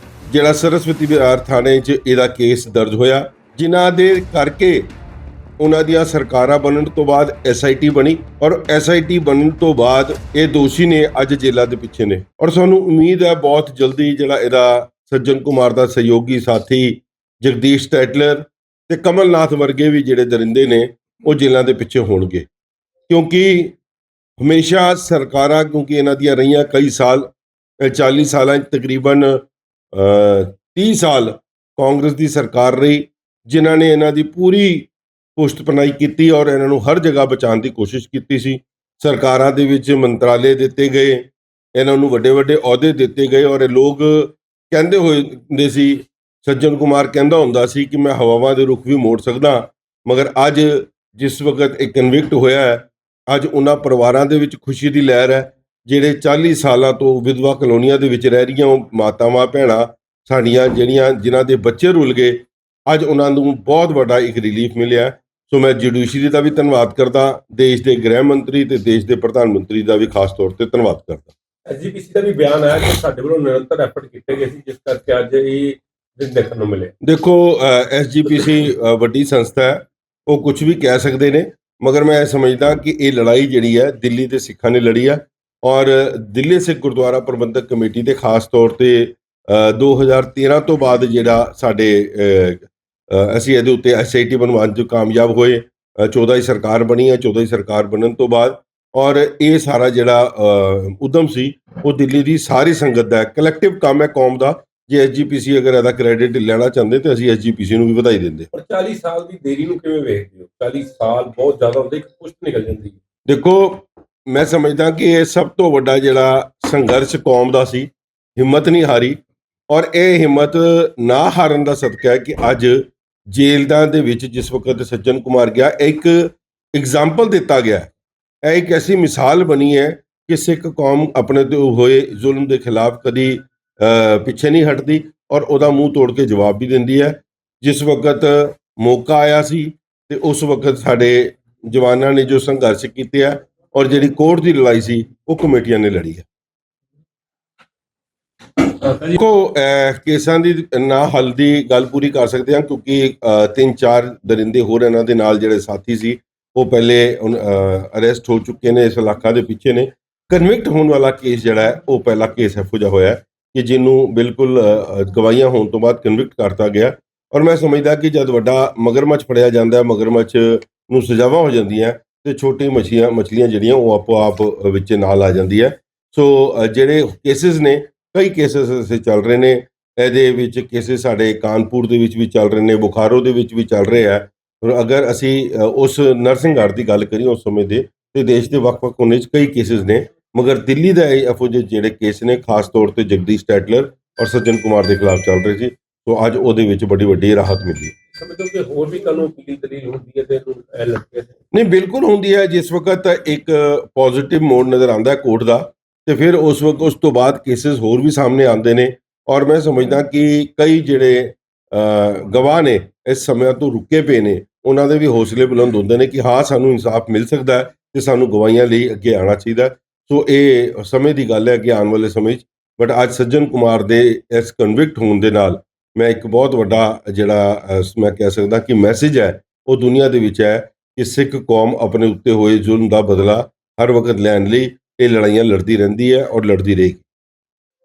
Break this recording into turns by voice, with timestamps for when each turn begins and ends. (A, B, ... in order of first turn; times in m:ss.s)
0:00.3-0:04.9 A
0:05.6-0:22.5 A
0:23.1-0:23.8 A
0:24.4-0:27.3 A
0:27.8-1:11.3 A
1:11.7-1:16.9 B
1:17.0-1:48.5 A
1:48.5-1:53.0 B
1:53.3-1:59.2 A
1:59.7-2:07.9 A
2:08.4-2:26.3 A
2:28.8-2:29.2 B
2:29.0-3:17.9 A
3:18.1-3:21.4 B
3:21.5-3:57.0 A